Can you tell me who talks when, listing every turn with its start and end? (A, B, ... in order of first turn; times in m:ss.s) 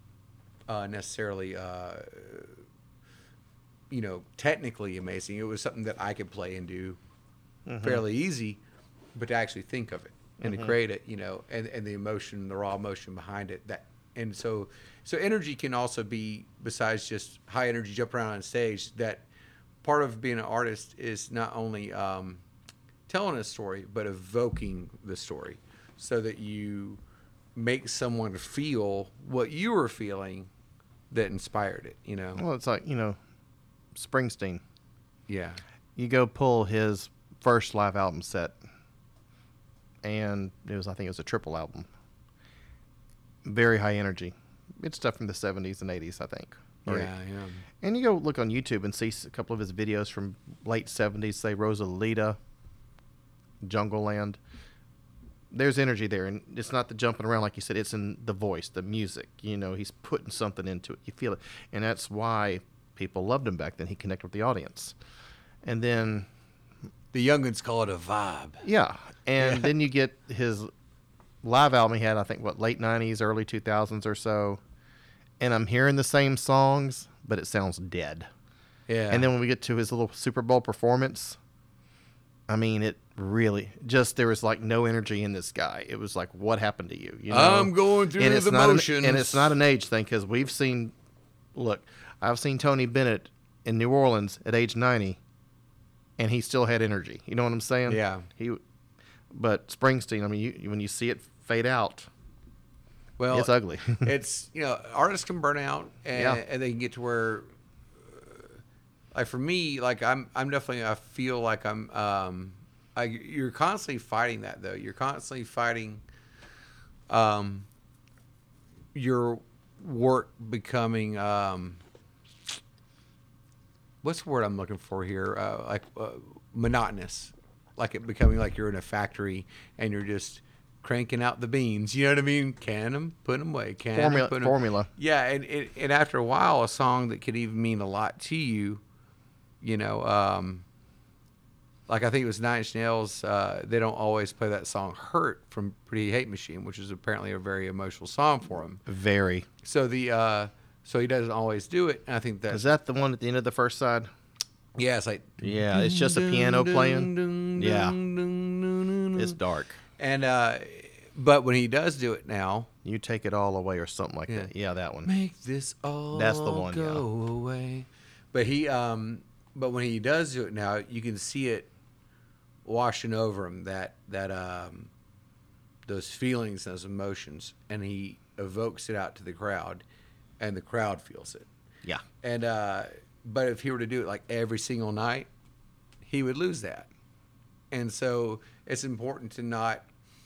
0:00.7-0:02.6 A
0:03.9-0:07.0 A
0:07.6-0:08.0 B
0:07.8-0:08.6 A
0:09.1-0:19.2 A
0:10.4-0:10.7 B
0:19.8-0:22.4 A
0:23.1-0:27.0 A
0:27.6-0:30.5 A
0:31.1-0:32.4 A
0:32.4-0:33.2 B
0:33.9-0:34.6 B
0:35.3-0:35.6 A
0:36.0-0:38.6 B
0:40.0-0:41.9 B
0:43.4-0:47.1 B
0:46.8-0:47.6 A
0:47.8-0:52.4 B
0:53.6-0:54.4 B
0:55.5-1:05.0 B
1:05.6-1:06.3 B
1:07.1-1:08.6 A
1:08.6-1:10.7 B
1:09.4-1:09.7 A
1:11.4-1:14.6 B
1:15.4-1:18.3 B
1:18.9-1:19.3 A
1:19.1-1:21.4 B
1:22.5-1:30.9 B
1:27.3-1:29.5 A
1:31.5-1:35.2 B
1:36.2-1:38.6 B
1:37.9-1:38.3 A
1:39.3-1:42.1 B
1:43.2-1:47.4 A
1:43.3-1:44.1 B
1:46.1-1:46.4 B
1:49.1-1:56.0 A
1:57.1-1:57.7 A
1:58.9-2:01.8 A
2:04.0-2:18.8 A
2:13.9-2:14.9 B
2:19.6-2:20.6 A
2:21.9-2:28.8 A
2:28.9-2:29.5 B
2:29.6-2:32.6 A
2:32.5-2:34.1 B
2:34.8-2:39.4 A
2:35.4-2:38.0 B
2:39.1-2:39.8 B
2:40.0-2:42.7 A
2:42.8-2:45.1 B
2:45.0-2:51.7 A
2:46.1-2:47.0 B
2:52.6-2:54.9 A
2:55.8-2:59.8 A
3:00.4-3:01.5 A
3:02.2-3:05.3 A
3:06.0-3:06.9 A
3:07.7-3:09.8 A